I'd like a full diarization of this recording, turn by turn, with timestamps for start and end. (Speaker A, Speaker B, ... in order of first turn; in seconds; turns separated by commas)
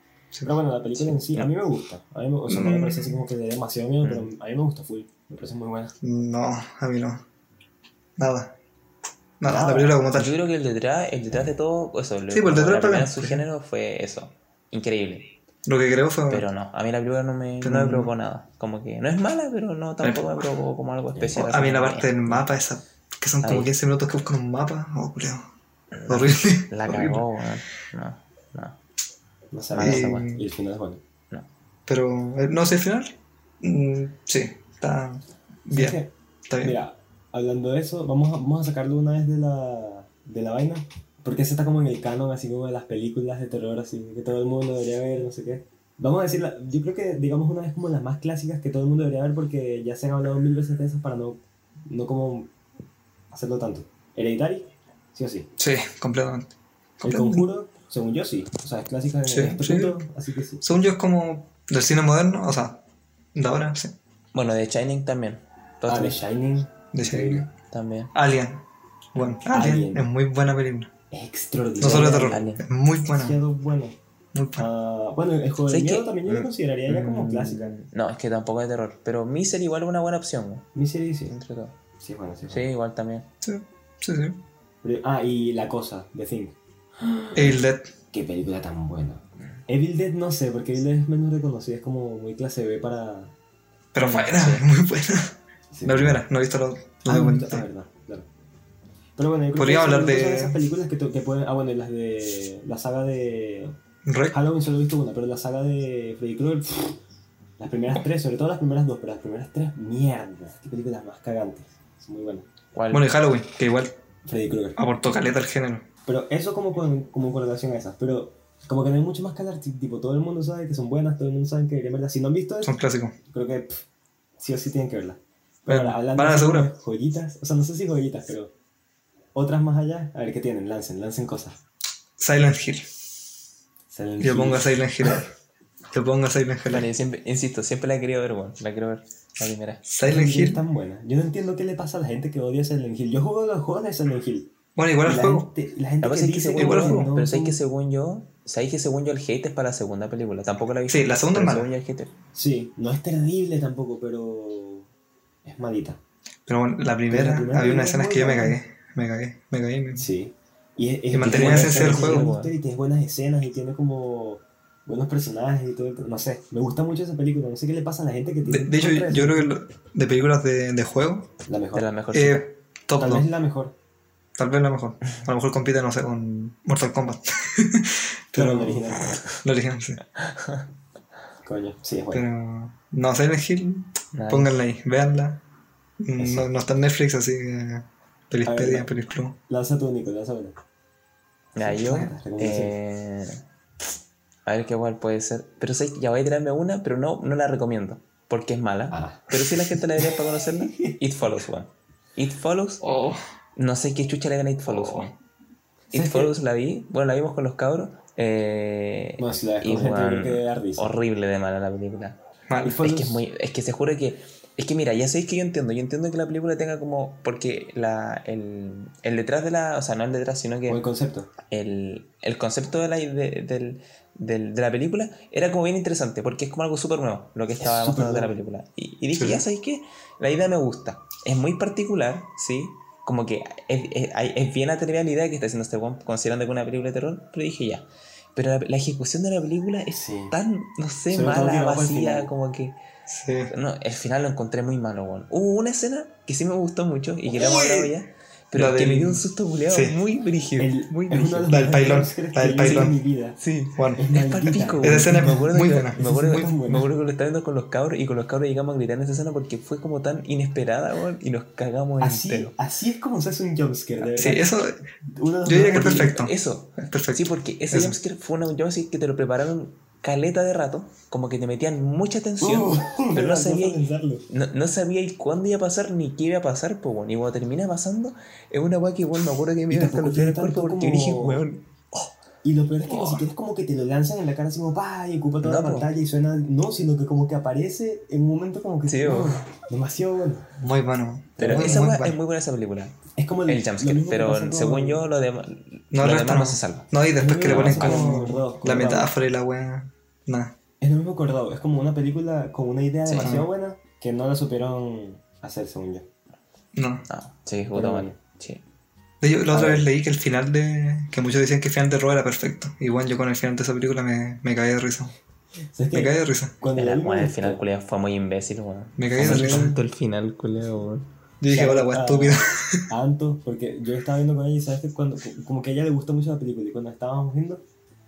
Speaker A: 0.4-5.9, Speaker B: 1.0-1.5, Speaker C: 2.5-3.2, Speaker B: 4.0-4.3, Speaker C: 6.0-7.2, Speaker C: 8.2-8.5, Speaker C: 9.4-10.3, Speaker A: 9.4-10.0, Speaker B: 10.1-15.3, Speaker C: 12.3-13.4, Speaker C: 15.7-16.5, Speaker B: 16.3-22.4, Speaker C: 17.6-18.1, Speaker C: 20.0-20.4, Speaker A: 21.1-21.4, Speaker C: 21.4-25.5, Speaker B: 23.4-23.7, Speaker B: 25.9-28.8, Speaker C: 26.1-27.2, Speaker A: 29.5-31.0, Speaker B: 29.7-30.3, Speaker C: 29.8-30.4, Speaker C: 31.9-36.8, Speaker A: 35.7-52.5, Speaker A: 53.3-55.5, Speaker C: 55.6-57.5, Speaker A: 57.0-60.6, Speaker C: 59.2-60.0, Speaker C: 60.6-62.8, Speaker C: 63.3-63.9, Speaker B: 64.3-66.2, Speaker A: 65.9-67.5, Speaker C: 66.9-67.5, Speaker B: 67.7-68.1, Speaker C: 68.1-68.6, Speaker C: 69.1-70.9, Speaker A: 69.4-70.1, Speaker A: 71.1-72.4, Speaker C: 71.8-73.4, Speaker B: 71.9-72.6, Speaker A: 73.1-74.0, Speaker C: 74.3-74.7, Speaker A: 74.5-77.7, Speaker B: 75.7-76.2, Speaker B: 76.9-80.7, Speaker A: 80.7-81.3, Speaker B: 81.3-81.8, Speaker A: 82.0-82.7, Speaker B: 82.5-83.2, Speaker C: 83.4-84.4, Speaker A: 84.8-93.3, Speaker C: 87.3-87.9, Speaker C: 93.9-97.6, Speaker B: 94.0-94.6, Speaker A: 95.7-96.2, Speaker A: 97.0-98.3, Speaker A: 99.2-103.8, Speaker C: 99.5-100.6, Speaker C: 104.0-104.3, Speaker A: 104.3-107.0, Speaker A: 107.6-112.5, Speaker B: 112.7-113.0, Speaker C: 112.9-113.9, Speaker A: 114.2-114.8, Speaker C: 114.8-115.8, Speaker A: 116.0-122.7, Speaker C: 122.6-123.2, Speaker A: 123.3-123.8, Speaker A: 124.4-128.5, Speaker C: 125.7-126.7, Speaker A: 129.3-131.6, Speaker C: 132.2-132.9, Speaker A: 133.9-135.2, Speaker C: 134.2-135.3, Speaker C: 135.9-136.9, Speaker B: 136.7-139.8, Speaker C: 139.8-140.6, Speaker A: 140.0-144.5, Speaker C: 144.8-145.5, Speaker A: 145.0-147.6, Speaker B: 146.0-152.1, Speaker C: 146.5-147.1, Speaker C: 150.9-151.7, Speaker A: 152.3-154.9, Speaker A: 155.4-156.0, Speaker C: 156.5-160.1, Speaker A: 157.1-158.6, Speaker A: 160.0-169.5, Speaker C: 161.1-162.3, Speaker B: 161.2-162.5, Speaker C: 168.4-171.3, Speaker A: 171.4-171.9, Speaker B: 171.7-172.5, Speaker C: 172.1-173.3, Speaker A: 173.0-173.8, Speaker C: 174.4-180.0, Speaker A: 178.3-179.2, Speaker B: 180.2-180.7, Speaker A: 181.4-182.2, Speaker C: 182.1-185.4, Speaker B: 184.1-184.6, Speaker C: 186.0-189.3, Speaker A: 186.2-186.5, Speaker A: 188.4-188.9, Speaker A: 189.5-190.6, Speaker B: 191.6-193.4, Speaker A: 191.6-192.7, Speaker B: 194.4-202.8, Speaker A: 198.9-200.9, Speaker C: 202.8-203.2, Speaker B: 203.6-205.1, Speaker C: 204.7-205.2, Speaker A: 205.9-206.4, Speaker B: 205.9-212.2, Speaker A: 209.2-210.9, Speaker C: 212.5-212.8, Speaker A: 212.6-213.2, Speaker B: 212.8-220.8, Speaker A: 220.7-221.3, Speaker B: 221.5-242.8, Speaker A: 227.6-228.3, Speaker C: 229.1-229.4, Speaker A: 239.9-240.3, Speaker A: 241.1-242.3, Speaker C: 243.1-243.5, Speaker B: 243.5-251.5, Speaker C: 247.3-247.9, Speaker C: 248.5-250.0, Speaker A: 250.6-253.4, Speaker C: 251.5-253.0, Speaker B: 252.6-262.5, Speaker C: 253.8-254.0, Speaker A: 253.9-255.4, Speaker C: 254.8-256.5, Speaker A: 255.9-256.9, Speaker A: 262.0-264.5, Speaker C: 264.1-264.8, Speaker A: 265.1-266.2, Speaker C: 265.4-267.9, Speaker B: 265.8-282.1, Speaker A: 272.4-274.2, Speaker A: 279.7-281.4, Speaker A: 282.4-290.5, Speaker B: 282.9-283.2, Speaker B: 285.4-285.9, Speaker B: 288.9-289.5, Speaker C: 290.6-292.1, Speaker A: 291.4-291.9, Speaker B: 291.4-296.9, Speaker A: 293.1-295.1, Speaker C: 295.9-300.5, Speaker A: 297.2-299.1, Speaker B: 297.4-298.3, Speaker A: 300.8-306.1, Speaker B: 303.1-303.4, Speaker C: 306.7-307.1, Speaker B: 307.1-308.6, Speaker A: 307.7-308.2, Speaker C: 309.2-315.1, Speaker A: 309.5-309.9, Speaker A: 315.7-317.6, Speaker C: 315.9-316.5, Speaker B: 316.7-321.1, Speaker C: 319.0-319.8, Speaker C: 321.4-322.8, Speaker A: 321.5-327.6